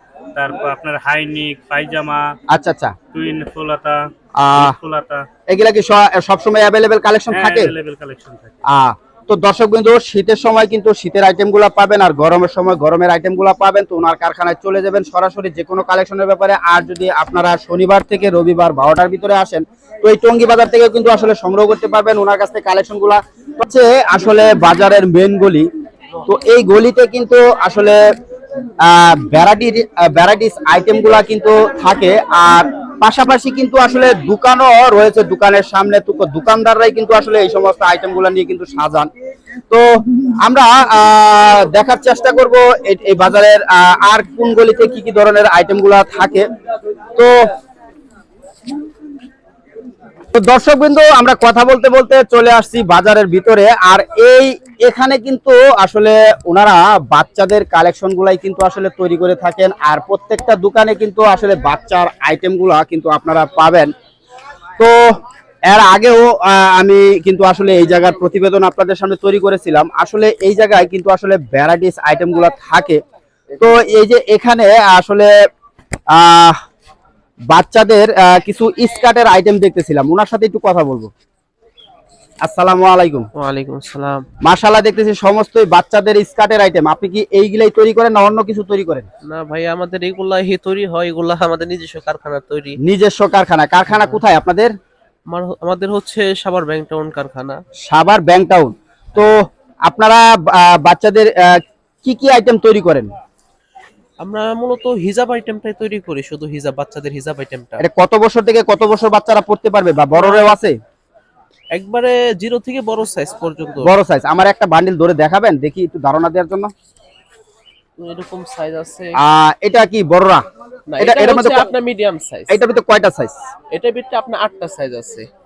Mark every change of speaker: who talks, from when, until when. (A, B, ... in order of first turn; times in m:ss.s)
0:00.3-0:02.3 A
0:02.5-0:03.0 B
0:03.1-0:05.3 A
0:04.4-0:04.7 B
0:05.5-0:07.7 B
0:07.3-0:08.5 A
0:08.7-0:25.7 B
0:26.2-0:28.0 B
0:28.8-0:39.1 B
0:40.4-0:46.4 B
0:50.3-1:03.9 B
1:05.7-1:13.0 B
1:13.6-1:15.3 B
1:16.1-1:16.6 B
1:17.5-1:21.1 B
1:22.4-1:23.3 B
1:23.4-1:24.2 C
1:24.4-1:29.1 B
1:29.3-1:32.8 C
1:32.8-1:34.7 B
1:33.9-1:34.2 C
1:35.3-1:37.6 C
1:37.9-1:39.3 B
1:39.8-1:43.1 B
1:44.2-1:47.8 C
1:47.8-1:50.8 B
1:50.1-1:50.6 C
1:51.7-1:53.9 C
1:53.8-1:56.7 B
1:58.0-1:59.1 C
1:59.2-2:00.4 B
2:00.9-2:02.5 C
2:01.0-2:01.7 B
2:02.5-2:03.4 B
2:03.7-2:05.2 C